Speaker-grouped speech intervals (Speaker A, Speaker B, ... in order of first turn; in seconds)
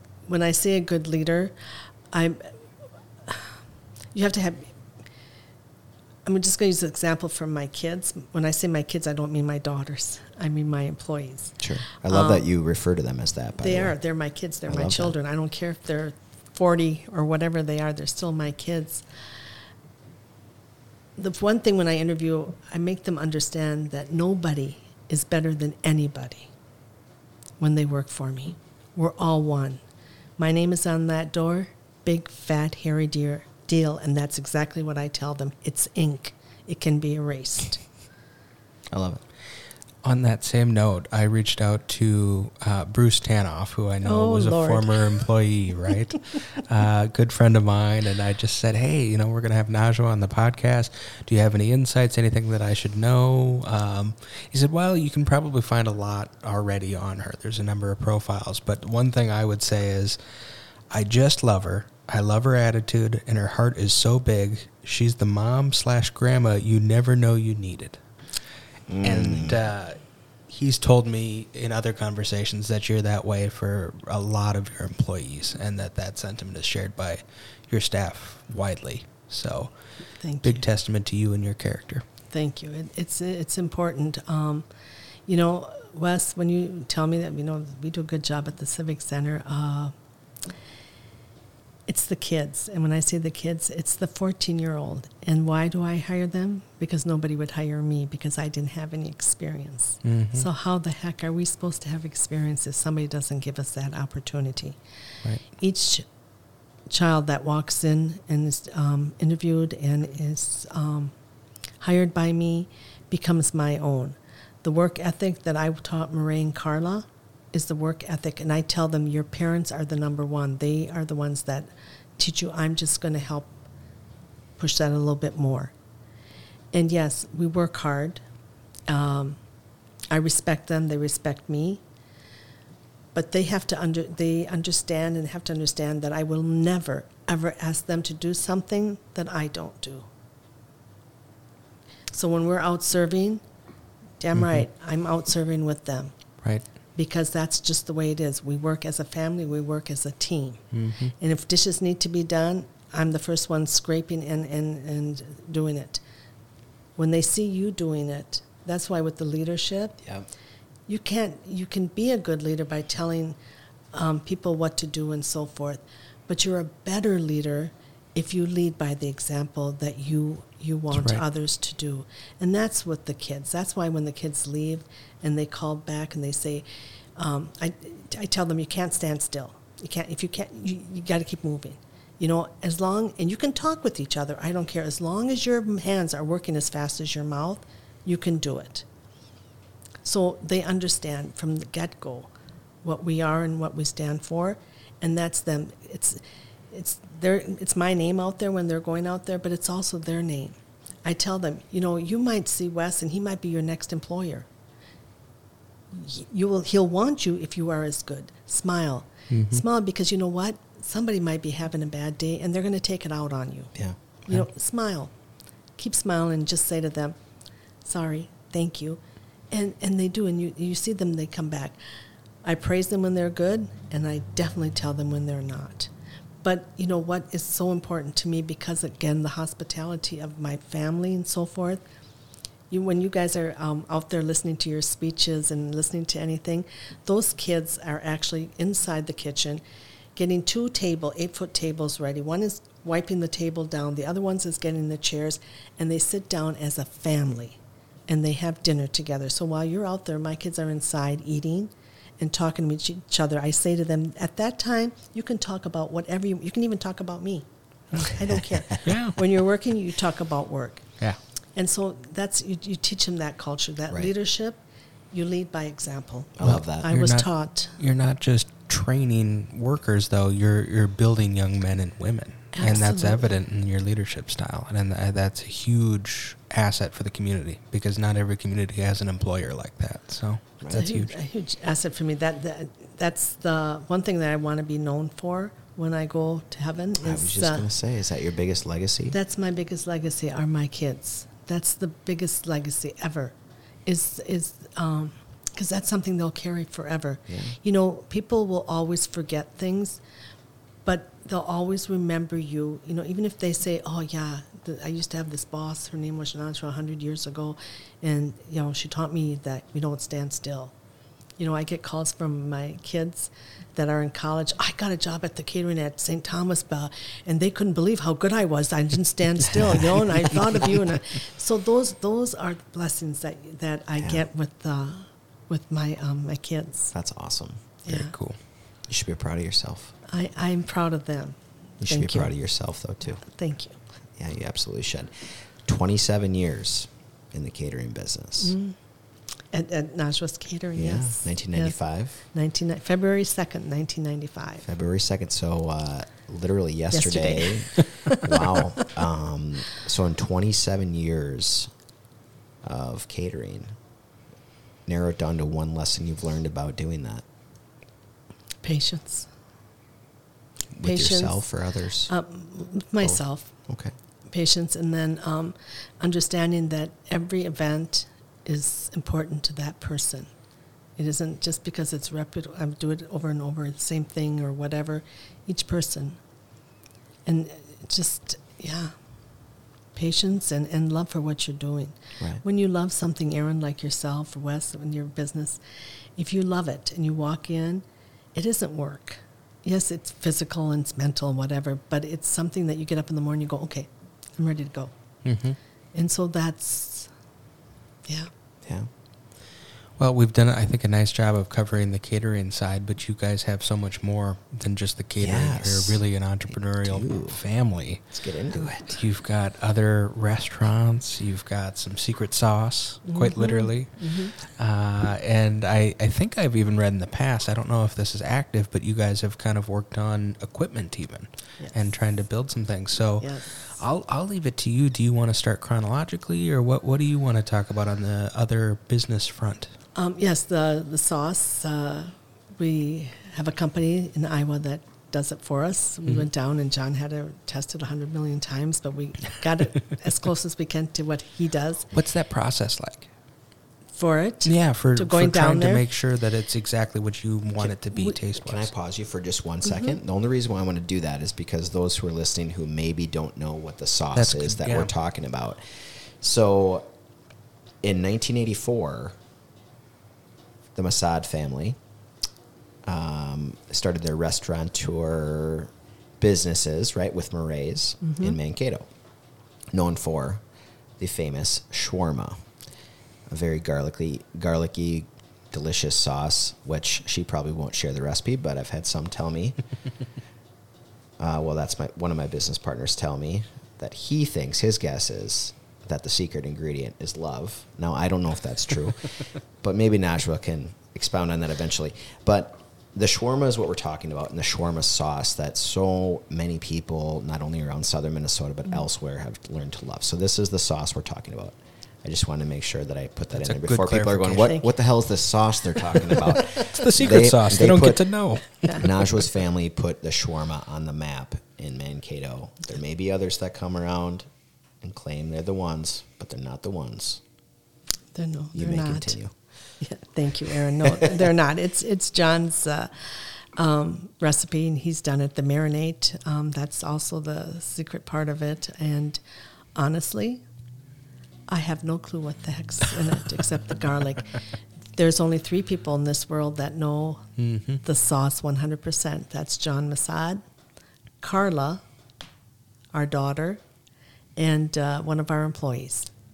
Speaker A: 0.2-2.5, 3.2-3.6, 4.1-4.7, 6.2-12.4, 13.6-19.0, 21.2-26.5, 27.6-29.8, 30.4-37.8, 44.0-45.2, 80.2-80.6, 82.3-84.7, 85.3-89.9, 91.9-104.8, 105.5-106.0, 106.9-111.1, 111.8-123.5, 124.6-125.7, 126.7-128.2, 128.9-129.4, 130.1-131.8, 133.1-140.1, 142.1-143.4, 144.2-146.1, 146.9-150.7, 151.2-156.0, 157.0-160.0, 160.9-163.3, 163.9-176.6, 177.2-188.8, 190.0-192.3, 192.8-204.5, 205.9-213.7, 214.3-215.1, 215.8-217.2, 217.8-221.8, 222.4-225.9, 226.4-231.8, 232.7-239.6, 240.2-260.9, 261.6-264.6, 265.1-267.7, 272.5-273.3, 280.7-287.7, 289.1-293.3, 293.9-300.0, 300.8-310.7, 311.4-326.9, 327.8-328.1, 330.1-332.3, 333.2-333.8, 338.4-338.8, 339.5-344.6, 346.9-348.2, 358.6-359.3, 360.8-361.5, 362.1-363.5, 364.3-370.3, 371.0-376.2, 377.2-378.9, 379.9-385.6, 386.1-387.8, 388.3-394.9, 395.9-397.1, 408.7-408.9, 413.1-414.3, 423.2-423.8, 429.9-441.9, 443.9-445.9, 468.0-468.4, 518.1-519.2, 519.8-529.2, 529.7-530.4, 531.5-534.4, 534.9-540.4, 541.2-541.8, 542.9-543.6, 544.4-546.1
Speaker B: 11.6-13.9, 14.7-15.1, 38.9-39.2, 68.9-69.6, 266.4-266.9, 287.0-289.1, 297.3-297.6, 326.9-327.6, 328.9-329.9, 331.8-333.2, 334.2-338.6, 340.7-342.2, 344.6-351.7, 352.6-353.7, 354.9-357.2, 360.7-362.1, 363.0-363.9, 398.6-398.9, 405.2-407.4, 408.1-408.8, 448.4-456.9, 457.8-459.2, 460.7-461.8, 462.8-468.9, 469.7-470.4, 471.0-472.4, 473.3-479.6, 481.2-508.1, 508.8-514.3, 514.8-517.2, 518.5-519.3
Speaker C: 40.0-60.2, 60.9-68.0, 69.0-79.7, 80.4-82.0, 100.0-100.5, 144.3-144.6, 150.7-151.1, 170.9-171.2, 209.3-209.6, 258.8-259.2, 266.4-281.1, 327.9-328.4, 395.2-395.6, 400.0-408.1, 408.8-429.7, 441.9-443.1, 444.4-448.7, 454.1-454.9, 503.3-504.6, 506.7-508.9, 537.4-537.8